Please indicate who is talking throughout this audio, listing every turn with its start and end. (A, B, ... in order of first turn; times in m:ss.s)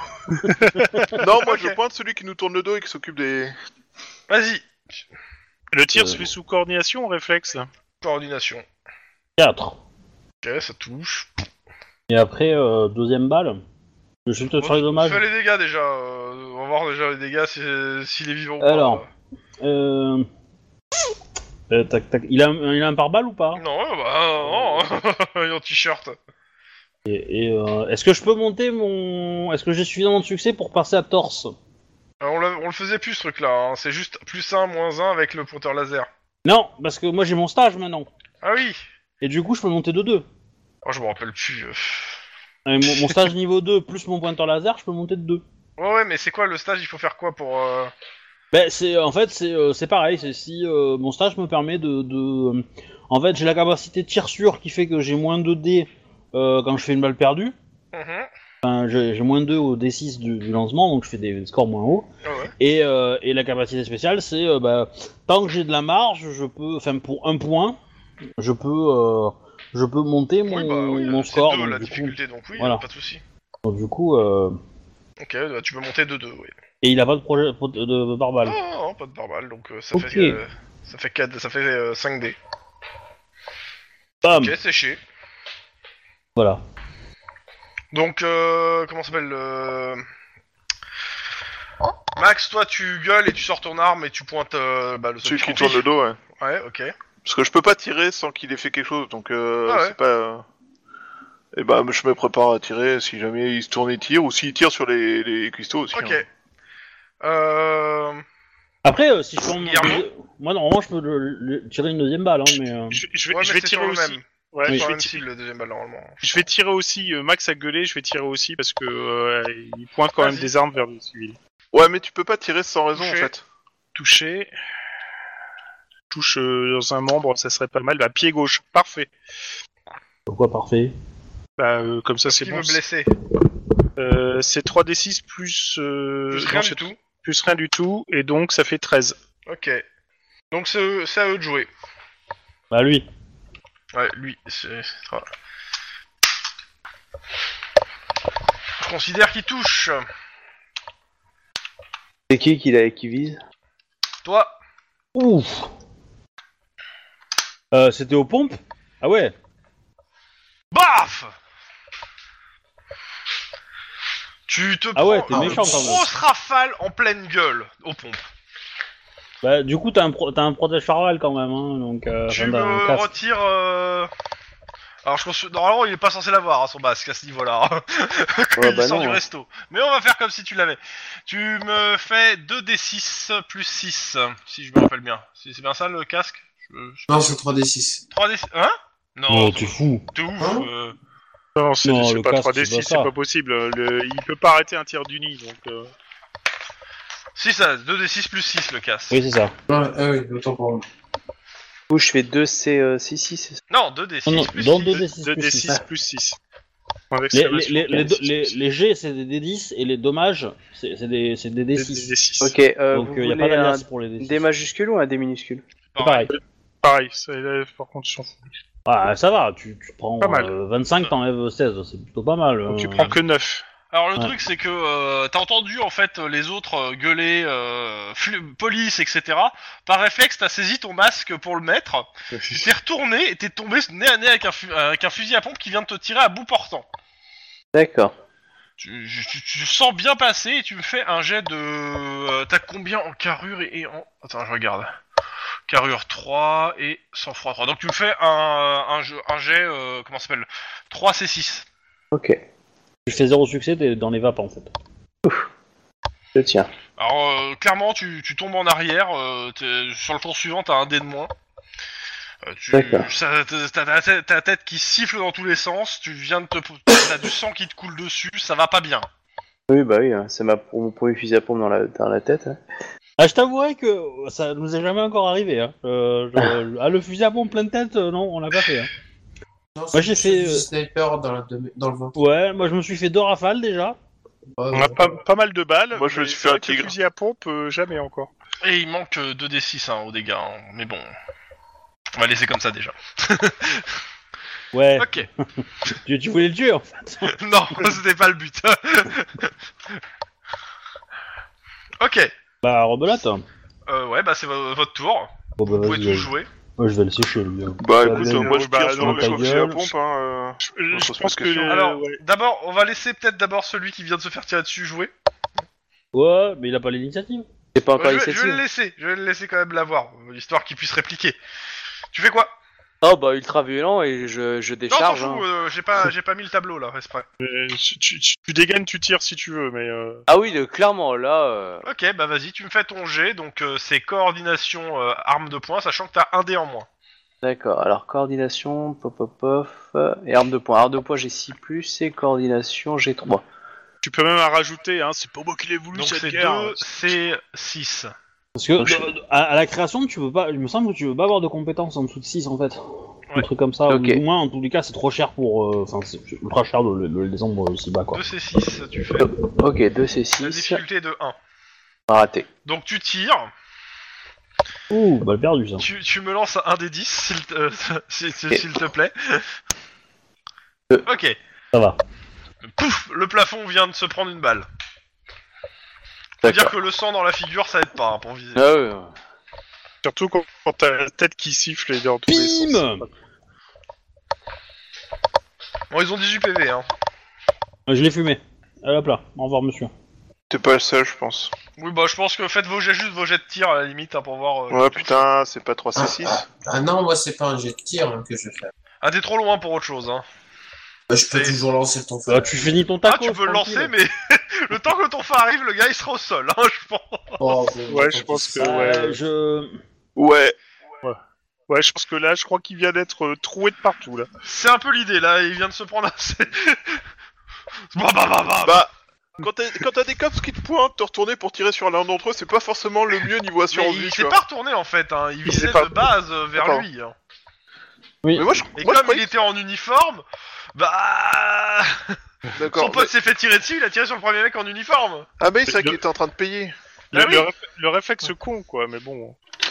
0:00.3-0:01.1 A
0:00.5-0:01.1 B
0:01.2-0:03.6 C
0:01.4-0:01.8 D
0:04.3-0:04.7 D
0:05.7-0:07.7 B
0:05.9-0:06.2 A
0:08.0-0:08.7 D
0:09.4-0:09.8 A
0:10.4-0:11.4 D
0:12.1-0:13.6 A
0:14.3-0:15.2 A
0:14.6-0:19.1 D
0:18.6-0:19.0 A
0:19.6-0:20.3 A
0:21.7-0:23.6 A
0:23.6-0:26.2 D
0:24.4-0:24.9 A
0:27.1-0:31.5 A
0:32.2-0:36.1 D
0:36.4-0:38.1 A
0:38.4-0:38.8 D
0:39.2-0:40.3 A
0:40.8-0:42.2 D
0:42.7-0:45.4 A
0:45.8-0:47.9 D
0:48.5-0:57.6 A
0:57.9-0:58.3 D
0:58.6-1:02.1 A
1:02.2-1:02.5 D
1:02.6-1:07.8 A
1:08.4-1:12.8 A
1:10.5-1:13.2 D
1:13.6-1:14.6 A
1:15.2-1:16.5 D
1:16.8-1:18.6 A
1:18.4-1:22.4 D
1:19.9-1:20.4 A
1:24.2-1:24.6 A
1:24.4-1:25.0 D
1:26.4-1:26.6 A
1:27.9-1:30.0 D
1:32.2-1:35.8 D
1:35.2-1:36.2 C
1:36.4-1:36.9 D
1:37.2-1:40.4 C
1:39.7-1:40.0 D
1:41.6-1:46.2 C
1:45.9-1:46.3 D
1:47.2-1:48.2 D
1:48.8-1:53.0 A
1:49.6-1:50.0 D
1:52.9-1:55.2 B
1:53.3-1:56.2 D
1:56.2-2:01.4 B
2:00.2-2:00.5 D
2:01.7-2:03.4 C
2:02.9-2:03.3 D
2:04.0-2:04.5 B
2:06.1-2:09.1 B
2:10.3-2:10.9 A
2:11.6-2:12.8 B
2:12.3-2:13.1 D
2:14.0-2:19.2 B
2:16.3-2:17.0 D
2:19.5-2:19.8 D
2:20.5-2:21.7 D
2:22.7-2:23.1 A
2:23.9-2:25.3 D
2:28.8-2:30.0 D
2:32.3-2:33.4 E
2:34.2-2:34.6 D
2:35.2-2:35.7 A
2:37.7-2:39.3 A
2:40.7-2:41.4 D
2:44.5-2:48.2 D
2:45.0-2:46.1 A
2:45.3-2:45.7 F
2:49.4-2:53.1 A
2:52.3-2:54.1 D
2:55.0-3:07.4 D
2:58.6-2:59.2 E
3:07.1-3:08.0 F
3:08.1-3:11.0 D
3:09.3-3:10.1 A
3:10.4-3:10.7 F
3:11.6-3:15.9 B
3:11.8-3:13.1 A
3:17.4-3:19.2 D
3:19.1-3:19.5 A
3:19.7-3:20.8 F
3:21.9-3:23.6 E
3:23.7-3:25.1 D
3:24.3-3:25.8 A
3:25.1-3:26.4 B
3:27.1-3:28.5 B
3:27.3-3:32.1 A
3:31.8-3:32.6 B
3:32.4-3:35.6 E
3:32.9-3:34.4 A
3:35.9-3:36.3 D
3:36.0-3:36.3 A
3:36.3-3:38.4 B
3:38.9-3:43.2 A
3:40.2-3:40.5 B
3:42.7-3:43.6 B
3:43.9-3:56.9 D
3:57.7-3:58.2 E
3:58.8-4:04.9 D
4:05.7-4:11.7 D
4:12.1-4:12.4 E
4:13.1-4:14.7 A
4:16.4-4:16.7 E
4:17.0-4:21.3 D
4:22.4-4:29.1 D
4:22.7-4:23.1 E
4:29.7-4:32.6 E
4:33.2-4:38.9 A
4:39.8-4:42.2 F
4:39.9-4:40.7 A
4:42.2-4:44.0 A
4:44.6-4:45.0 F
4:44.7-4:48.3 B
4:45.9-4:46.9 C
4:48.6-4:51.1 D
4:52.2-4:54.0 D
4:54.7-4:55.1 A
4:55.0-4:55.3 D
4:55.9-4:57.4 A
4:57.3-4:59.5 D
5:02.0-5:02.3 D
5:02.6-5:03.4 A
5:03.9-5:06.5 D
5:05.6-5:09.9 A
5:07.8-5:11.8 C
5:08.0-5:09.7 B
5:10.6-5:12.2 B
5:11.6-5:15.1 D
5:16.1-5:17.5 A
5:17.8-5:18.6 E
5:18.0-5:21.4 D
5:22.1-5:22.5 D
5:23.0-5:25.4 E
5:24.9-5:27.3 D
5:27.4-5:30.2 B
5:30.3-5:31.8 E
5:31.8-5:36.9 D
5:37.4-5:43.4 E
5:44.0-5:46.9 B
5:45.9-5:48.1 D
5:48.6-5:52.8 A
5:53.4-5:58.2 A
5:53.9-5:54.2 E
5:58.1-5:59.3 D
5:59.2-6:00.8 E
6:00.4-6:01.4 D
6:02.1-6:02.5 E
6:02.7-6:03.5 D
6:04.9-6:05.9 A
6:05.8-6:09.5 D
6:11.0-6:11.4 D
6:11.7-6:12.0 A
6:12.7-6:14.7 D
6:16.4-6:16.7 E
6:16.4-6:18.6 D
6:18.6-6:19.1 E
6:20.0-6:23.1 B
6:22.3-6:23.0 A
6:25.9-6:26.9 D
6:27.9-6:29.9 A
6:30.5-6:31.5 C
6:31.8-6:35.2 D
6:34.7-6:36.4 C
6:36.0-6:38.7 F
6:39.0-6:40.2 D
6:41.1-6:42.7 F
6:41.3-6:41.6 D
6:42.3-6:43.9 A
6:43.1-6:47.6 D
6:47.4-6:48.8 F
6:47.9-6:49.2 B
6:48.6-6:49.8 A
6:50.2-6:50.6 C
6:51.0-6:54.3 B
6:54.4-6:57.0 D
6:57.9-6:58.8 D
6:58.6-7:04.4 C
7:03.7-7:07.1 D
7:05.5-7:05.9 B
7:06.6-7:06.9 C
7:08.2-7:08.5 A
7:08.4-7:09.3 C
7:08.8-7:10.2 D
7:10.8-7:12.2 D
7:12.6-7:13.1 C
7:12.7-7:15.3 D
7:15.4-7:16.7 C
7:15.7-7:16.0 B
7:17.1-7:19.4 B
7:17.1-7:17.5 D